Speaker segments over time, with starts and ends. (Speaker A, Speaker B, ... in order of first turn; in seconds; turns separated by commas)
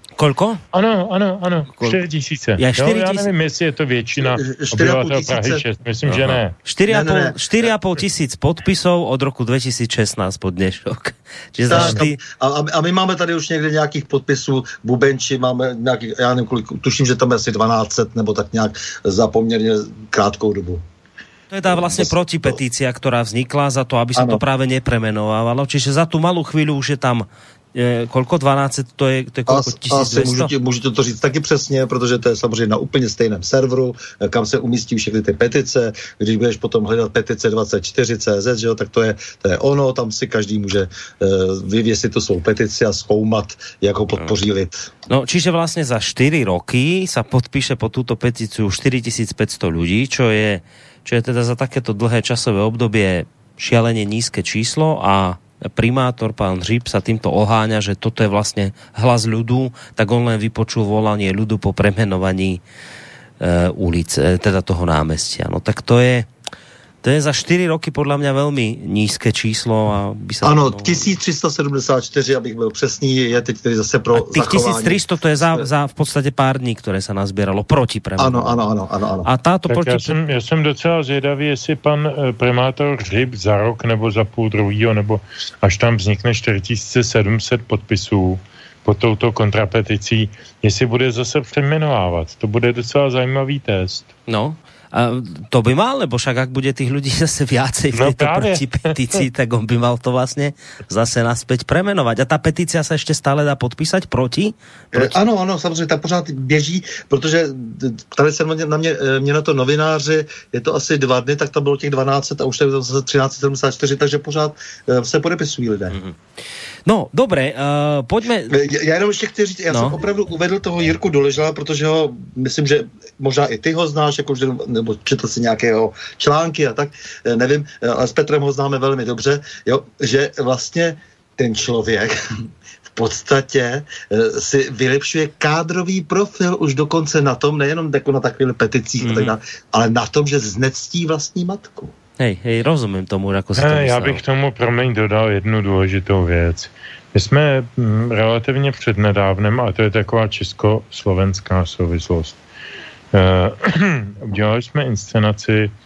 Speaker A: 0.2-0.6, Speaker B: 0.7-6.5, Speaker A: 2.6-3.3, Speaker C: 4.1-5.6, Speaker A: 6.0-12.2, Speaker C: 6.9-7.4, Speaker C: 11.7-20.8, Speaker B: 11.7-12.0, Speaker A: 21.5-30.5, Speaker C: 21.7-22.6, Speaker C: 24.1-24.4, Speaker C: 29.5-44.9, Speaker A: 45.1-62.6, Speaker A: 63.4-66.3, Speaker A: 67.0-71.1, Speaker C: 70.4-75.7, Speaker A: 74.1-78.6, Speaker C: 78.2-79.3, Speaker A: 79.2-80.1, Speaker B: 79.7-94.1, Speaker A: 94.3-105.2, Speaker B: 98.0-98.8, Speaker C: 104.9-116.0, Speaker A: 116.8-118.5, Speaker C: 118.5-132.2, Speaker A: 119.7-120.0, Speaker C: 132.9-141.9, Speaker A: 139.0-139.3, Speaker A: 142.2-144.2, Speaker B: 143.6-152.4, Speaker B: 153.1-155.7